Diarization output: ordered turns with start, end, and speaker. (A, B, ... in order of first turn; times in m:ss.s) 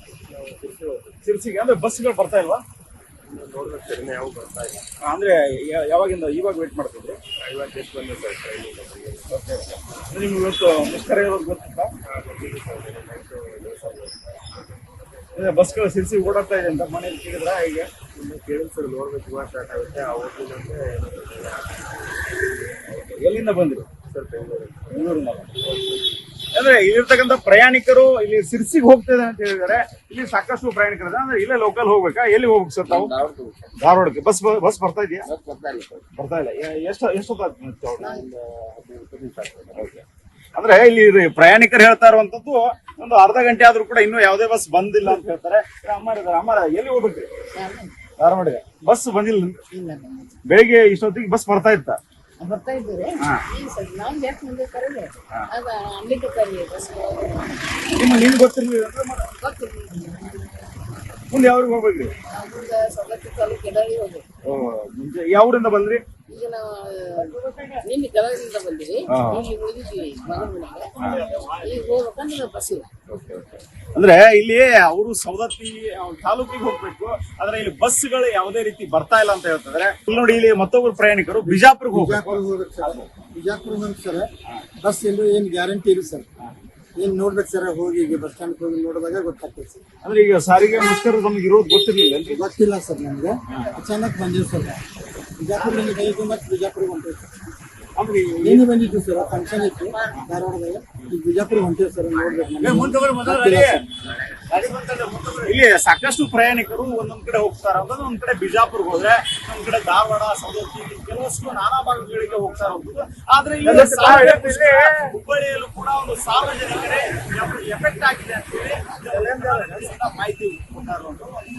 0:00.4-0:01.0 A
0:01.2-0:02.6 B
0:03.3-0:04.8 A
0:05.0-0:07.2 B
0:07.4-0:09.2 A
0:09.3-0:11.9 B
0:12.1-0:14.1 A
0:15.3-0:17.9 B
0:18.2-0:21.6 A
0:23.0-0:23.9 B
0:24.1-0:24.8 A
0:24.9-0:25.5 B
0:26.5-0:33.1 B
0:32.9-0:33.6 A
0:33.8-0:35.3 B
0:35.3-0:36.0 A
0:36.1-0:38.2 B
0:38.0-0:38.2 C
0:38.2-0:39.8 A
0:39.7-0:40.0 B
0:40.6-0:47.3 B
0:47.6-0:47.9 C
0:48.2-0:49.6 B
0:49.7-0:50.3 C
0:50.5-0:52.0 B
0:52.4-0:57.7 C
0:57.9-0:59.3 B
0:59.4-1:00.5 C
1:01.3-1:02.1 B
1:02.3-1:04.2 C
1:04.4-1:06.0 B
1:06.3-1:12.9 C
1:07.3-1:07.8 B
1:09.1-1:09.4 B
1:11.0-1:11.6 B
1:13.1-1:23.1 B
1:21.4-1:24.3 D
1:24.8-1:26.2 D
1:27.0-1:29.8 D
1:30.0-1:32.4 B
1:32.3-1:34.8 D
1:35.4-1:37.3 D
1:38.0-1:38.6 B
1:38.4-1:43.8 D
1:42.6-1:43.8 B
1:44.5-2:01.4 B
1:53.7-1:54.5 D